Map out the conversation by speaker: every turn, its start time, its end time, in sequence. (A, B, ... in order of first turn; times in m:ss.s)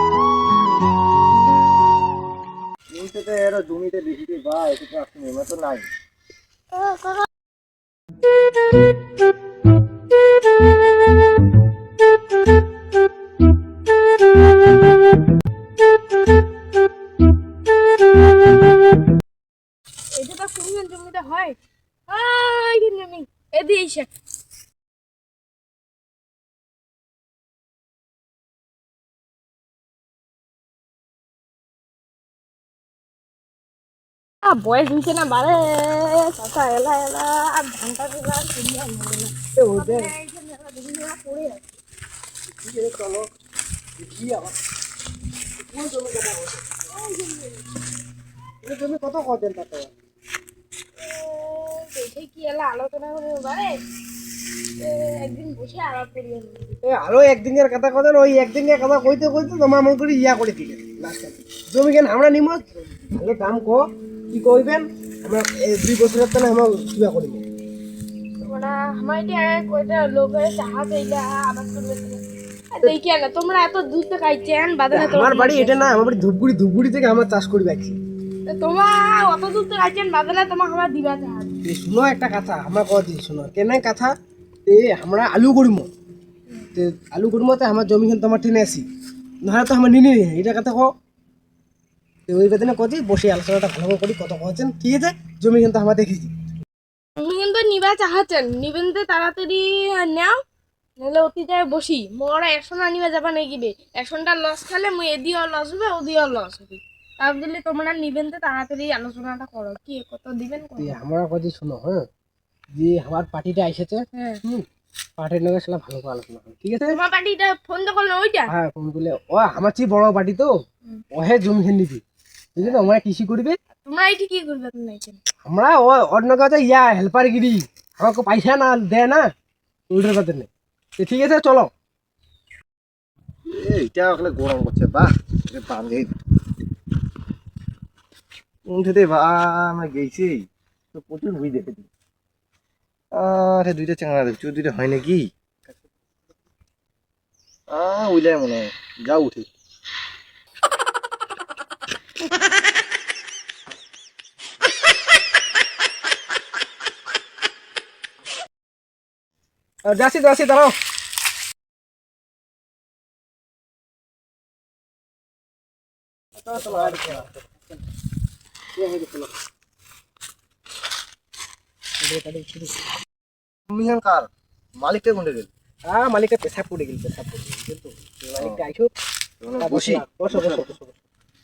0:02.9-0:05.9 A
0:20.1-0:21.6 B
0:22.1-0:24.1 B
0:34.4-0:41.6 B
0:39.6-0:40.1 C
0:42.5-0:43.3 C
0:44.0-0:44.6 C
0:45.6-0:46.7 C
0:46.8-0:47.7 B
0:48.6-0:49.9 C
0:51.0-0:53.8 B
0:54.8-0:56.8 B
0:56.8-1:07.4 C
1:08.4-1:15.8 B
1:14.9-1:18.0 C
1:18.4-1:21.5 B
1:21.6-1:24.1 C
1:24.6-1:25.9 C
1:26.7-1:28.8 C
1:29.4-1:30.9 C
1:32.3-1:36.3 C
1:37.2-1:40.4 B
1:41.0-1:50.9 B
1:50.8-1:52.0 C
1:52.7-1:54.6 C
1:54.1-1:54.4 B
1:55.2-1:57.0 C
1:56.9-1:58.5 B
1:58.5-2:00.5 C
2:01.1-2:02.0 C
2:02.6-2:03.6 C
2:03.8-2:05.2 B
2:05.4-2:09.2 C
2:09.9-2:11.7 C
2:13.5-2:16.2 A
2:18.7-2:21.9 A
2:23.1-2:25.3 A
2:27.7-2:29.5 A
2:39.8-2:40.8 C
2:46.4-2:47.4 C
2:48.8-2:49.3 C
2:52.0-2:52.7 C
2:53.7-2:55.5 A
2:55.9-2:58.9 C
2:58.4-2:58.6 A
2:59.4-3:00.7 A
2:59.6-3:01.0 C